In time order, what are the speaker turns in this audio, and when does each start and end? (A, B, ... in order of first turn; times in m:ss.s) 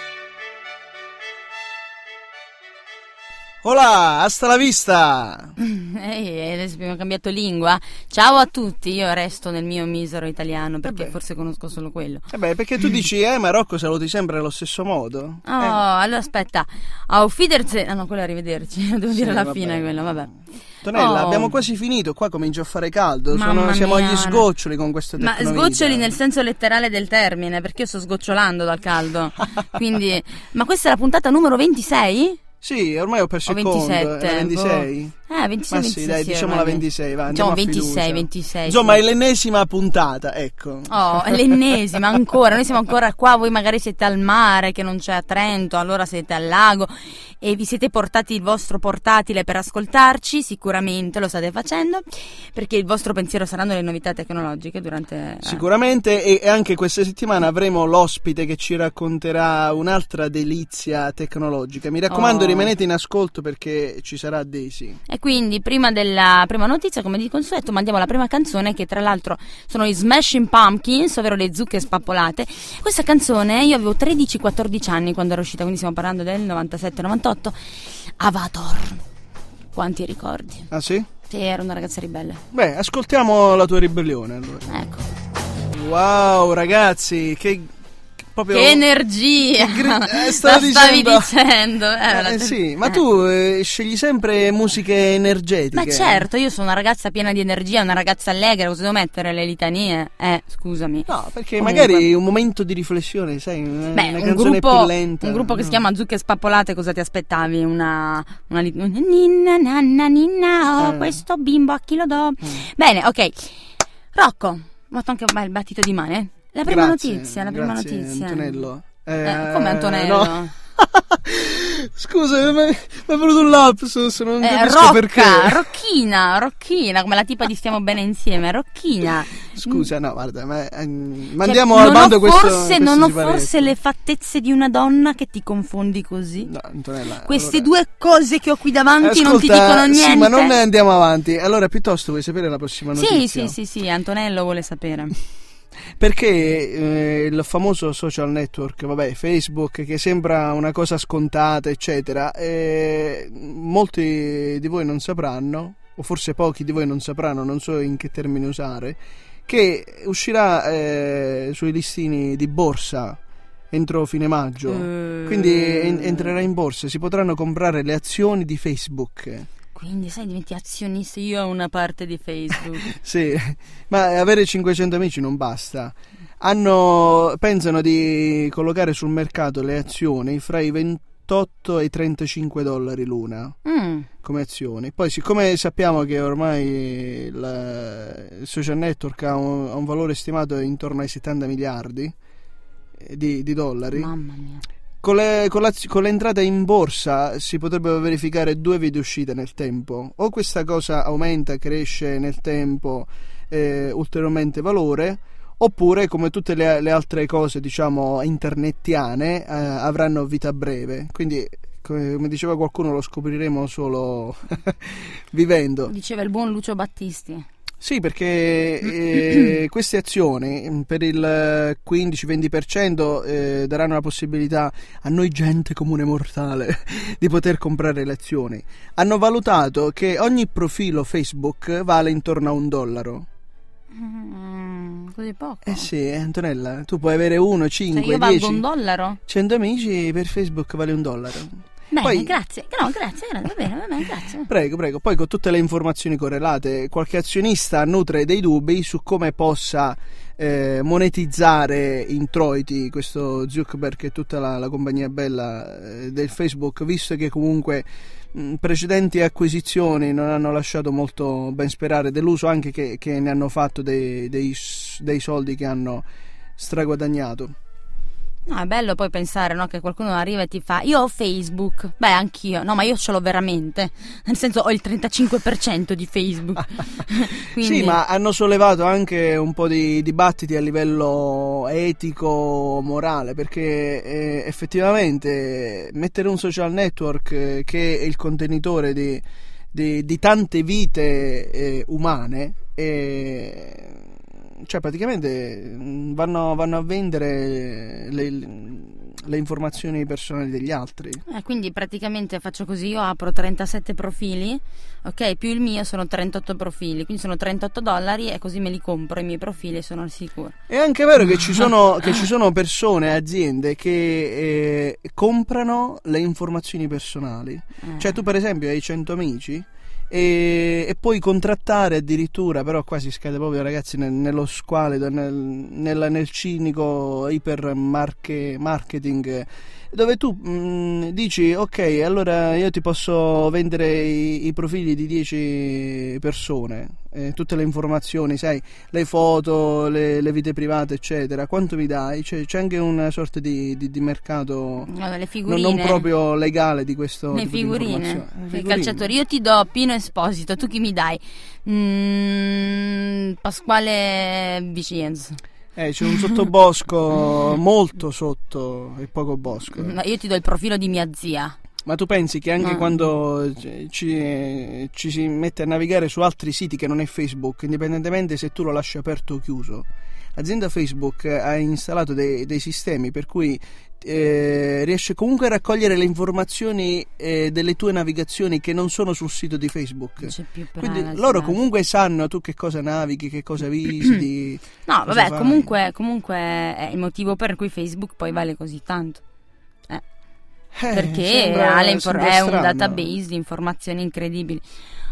0:03.6-0:05.5 A
0:05.6-0:12.2 B
0:10.8-0:11.2 A
0:12.3-0:15.8 A
0:15.4-0:20.3 B
0:19.1-0:20.0 A
0:20.8-0:26.2 A
0:20.9-0:21.6 B
0:23.3-0:24.5 B
0:25.2-0:32.4 B
0:32.6-0:35.1 A
0:33.4-0:39.0 B
0:35.7-0:42.1 A
0:40.9-0:55.6 B
0:55.4-1:05.0 A
1:02.1-1:02.7 B
1:05.1-1:17.5 B
1:18.2-1:19.0 B
1:19.7-1:20.7 B
1:20.7-1:21.1 A
1:21.3-1:22.4 B
1:22.5-1:24.7 A
1:24.7-1:25.1 B
1:25.7-1:27.7 A
1:28.3-1:28.8 A
1:28.5-1:33.0 B
1:29.6-1:31.3 A
1:32.1-1:36.2 A
1:35.7-1:42.1 B
1:41.1-1:45.8 A
1:43.9-1:53.6 B
1:50.8-1:51.2 A
1:54.1-1:58.6 B
1:56.6-2:05.6 A
1:59.2-2:00.5 B
2:04.4-2:09.9 B
2:09.5-2:13.7 A
2:11.4-2:16.5 B
2:16.4-2:17.7 A
2:17.2-2:20.6 B
2:19.0-2:23.6 A
2:22.9-2:25.1 B
2:26.0-2:43.2 A
2:43.7-2:49.5 A
2:44.7-2:46.4 B
2:49.7-2:52.8 B
2:52.6-3:03.6 A
3:03.6-3:04.1 B
3:04.2-3:12.1 A
3:13.0-3:14.1 A
3:13.9-3:14.6 B
3:15.0-3:35.9 A
3:35.9-3:37.4 B
3:37.8-3:53.3 A
3:53.9-3:55.9 B
3:55.6-3:58.6 A
3:57.9-3:59.2 B
3:59.3-4:02.4 A
4:01.9-4:04.5 B
4:04.5-4:26.0 A
4:26.6-4:27.5 A
4:28.4-4:38.0 B
4:37.5-5:01.2 A
5:01.3-5:10.5 B
5:10.7-5:44.9 A
5:11.3-5:12.2 B
5:17.8-5:18.1 B
5:44.9-5:46.1 B
5:45.4-5:49.0 A
5:47.3-5:55.4 B
5:55.8-5:59.9 A
5:56.1-5:56.3 B
5:59.7-6:01.6 B
6:01.8-6:25.7 A
6:02.6-6:02.9 B
6:20.2-6:21.6 B
6:24.8-6:29.2 B
6:30.8-6:33.1 A
6:30.9-6:34.6 B